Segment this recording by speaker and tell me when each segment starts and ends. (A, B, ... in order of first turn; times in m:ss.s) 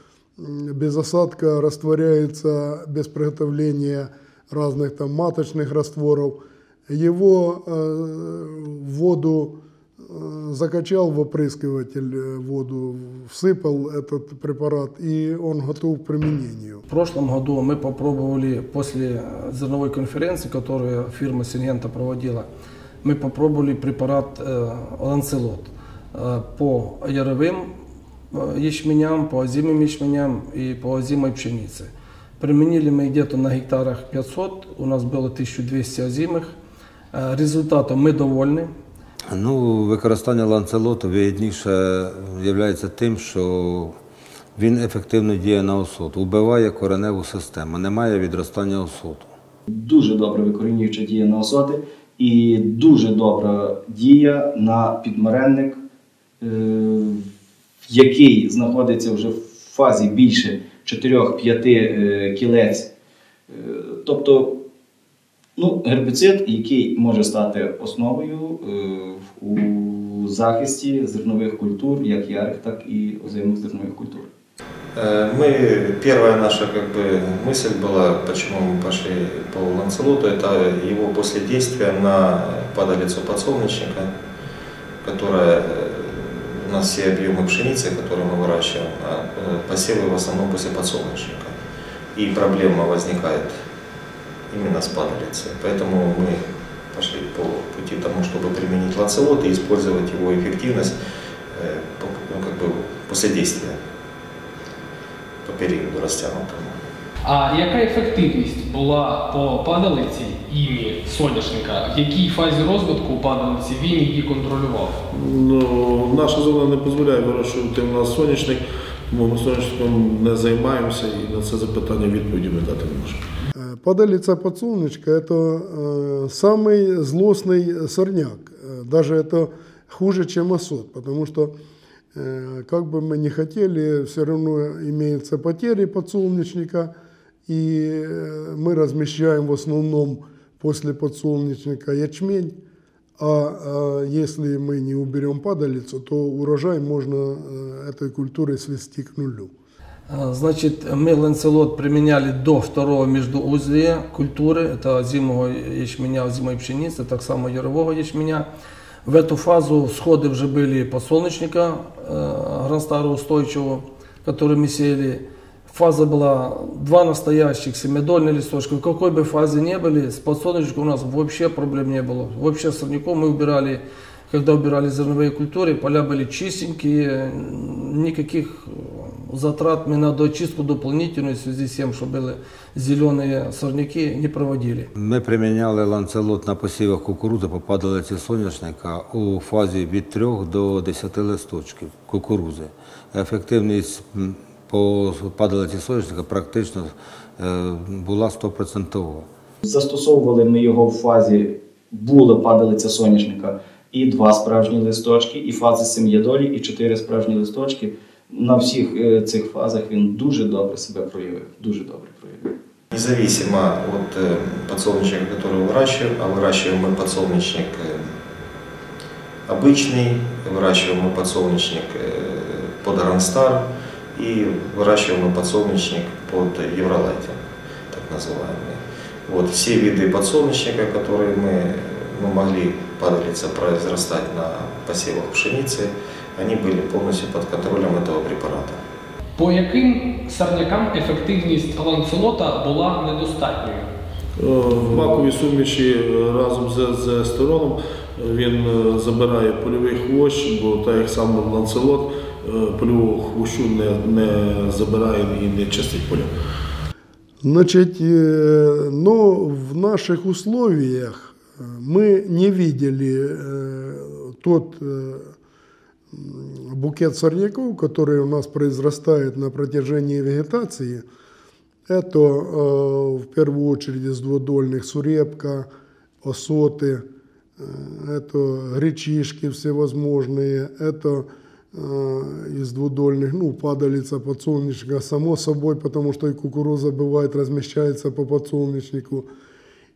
0:00.4-0:06.4 A
0:06.9-0:16.8 A
0:16.9-0:22.5 B
0:23.0-0:27.7 B
0:28.3-0:36.5 B
0:37.1-0:38.7 B
0:39.3-0:44.0 C
0:44.6-0:49.3 C
0:49.7-0:55.8 D
0:56.4-0:57.2 D
0:57.9-1:02.9 D
1:03.5-1:04.6 D
1:05.6-1:14.3 D
1:15.0-1:24.1 E
1:25.0-1:31.5 E
1:32.1-1:33.5 E
1:34.5-1:36.4 E
1:36.9-1:40.9 E
1:41.5-1:43.8 E
1:45.4-1:46.8 E
1:47.2-1:54.9 F
1:55.1-2:03.2 G
2:03.6-2:11.5 A
2:12.1-2:16.9 A
2:17.5-2:22.6 A
2:23.2-2:29.5 A
2:30.1-2:38.4 B
2:39.0-3:04.9 B
3:04.9-3:19.3 C
3:19.6-3:32.5 D
3:32.9-3:38.1 E
3:39.5-3:47.4 E
3:47.9-3:58.8 E
3:59.4-4:03.9 F
4:04.4-4:16.3 G
4:17.4-4:25.3 A
4:26.1-4:31.0 A
4:31.9-4:35.7 A
4:36.2-4:37.0 A
4:37.6-4:49.3 A